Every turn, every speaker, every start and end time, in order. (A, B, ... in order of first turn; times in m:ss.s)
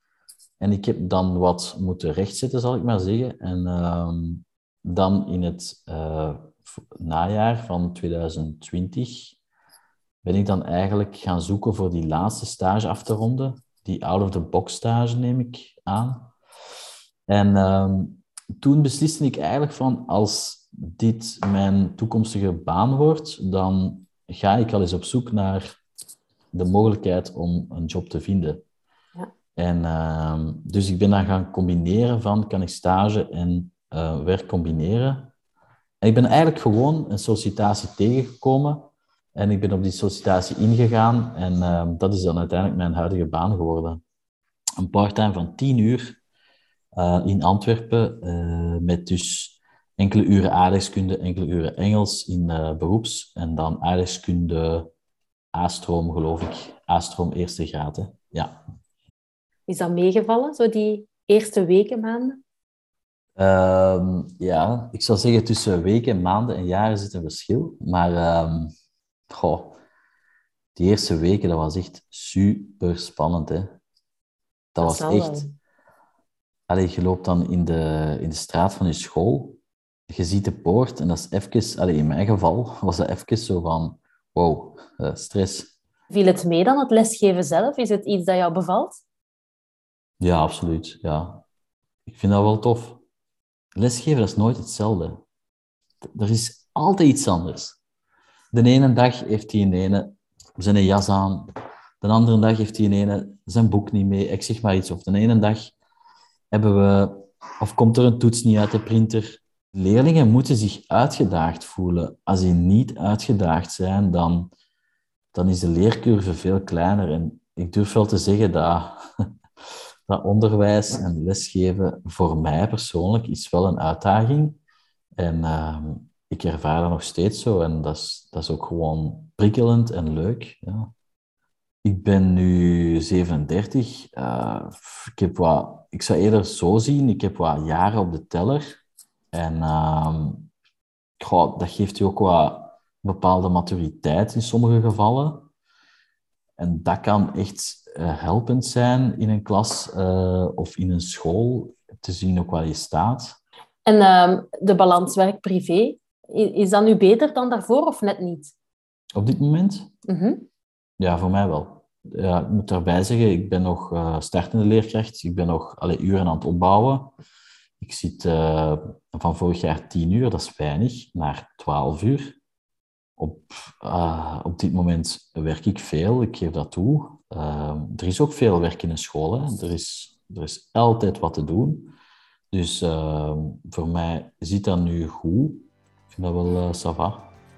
0:00.6-0:09.4 A
0:10.2-0:16.3 A
0:17.3-0:25.8 A
0:26.5-0:28.6 A
0:29.6-0:35.3 A
0:36.0-0:44.0 A
0:44.8-0:46.2 A
0:46.9-0:54.9 A
0:55.5-0:58.6 A
0:59.7-1:02.4 B
1:03.4-1:08.7 A
1:09.3-1:09.8 A
1:10.8-1:13.8 A
1:14.7-1:15.4 A
1:14.8-1:15.5 B
1:16.7-1:25.7 A
1:26.1-1:29.0 B
1:30.2-1:31.4 A
1:32.1-1:33.0 A
1:33.7-1:35.2 A
1:36.0-1:37.8 A
1:38.5-1:41.5 A
1:42.0-1:45.7 A
1:46.5-1:54.5 A
1:55.3-1:59.2 A
2:00.1-2:04.6 A
2:05.2-2:10.9 A
2:11.8-2:18.8 A
2:19.3-2:20.5 A
2:21.2-2:25.5 A
2:26.6-2:33.4 A
2:33.8-2:38.5 B
2:39.2-2:39.9 A
2:40.1-2:40.4 B
2:41.0-2:47.1 A
2:47.8-2:52.4 A
2:53.2-3:01.9 A
3:02.5-3:07.3 A